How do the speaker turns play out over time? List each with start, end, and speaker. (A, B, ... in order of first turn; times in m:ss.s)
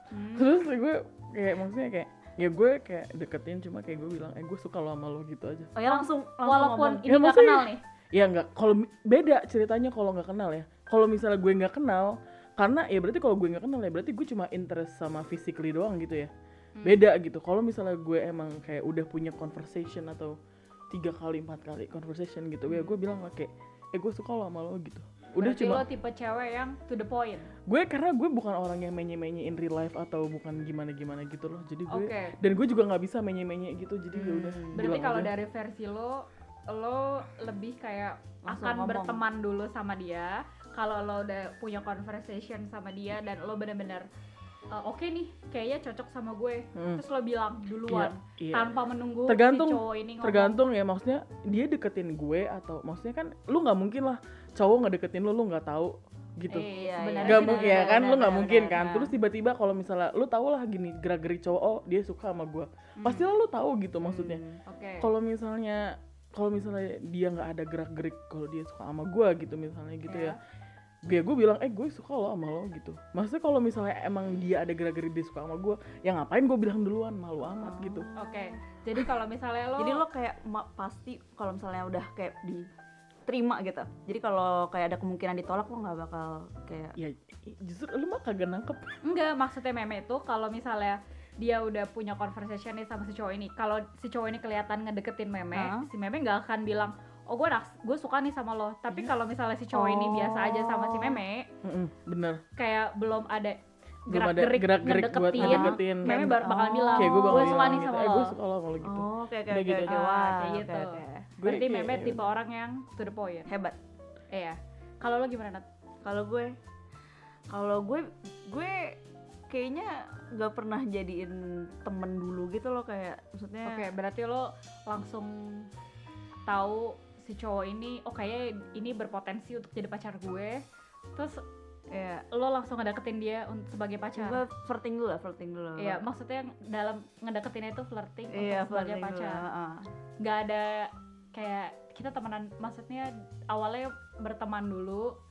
0:00.1-0:00.4 A
0:00.4-0:05.7 B
0:05.8-0:07.1 C
0:05.9-0:07.8 A
0:07.1-0:16.3 B
0:16.8-0:17.0 A
0:16.8-0:20.4 B
0:20.9-0:25.8 B
0:25.4-0:27.5 A
0:27.7-0:35.3 B
0:31.9-0:32.4 A
0:34.1-0:35.0 C
0:34.8-0:44.1 A
0:38.4-0:39.2 C
0:44.7-0:50.6 A
0:46.8-0:47.0 B
0:47.9-1:04.4 B
0:56.5-0:58.2 A
0:56.7-0:59.1 C
1:03.0-1:03.2 A
1:04.1-1:04.6 C
1:04.7-1:05.1 A
1:05.0-1:10.4 B
1:10.1-1:10.4 A
1:11.1-1:18.1 B
1:17.6-1:18.6 C
1:18.2-1:20.0 A
1:19.8-1:22.7 C
1:23.3-1:27.0 C
1:27.0-1:29.0 B
1:29.0-1:41.5 A
1:35.5-1:35.9 C
1:39.7-1:41.2 C
1:41.6-1:42.4 B
1:42.6-1:48.3 A
1:44.1-1:50.0 B
1:45.4-1:47.6 C
1:48.8-1:51.3 C
1:49.9-1:53.5 A
1:51.4-1:52.2 B
1:53.5-1:53.8 C
1:54.3-1:55.6 A
1:56.0-1:56.6 C
1:57.5-1:59.0 C
1:59.5-2:03.9 C
2:03.6-2:05.7 A
2:06.5-2:10.6 A
2:11.2-2:11.4 A
2:11.9-2:12.2 C
2:12.3-2:14.4 A
2:14.2-2:16.0 C
2:15.8-2:19.4 A
2:18.3-2:19.9 C
2:20.2-2:25.2 A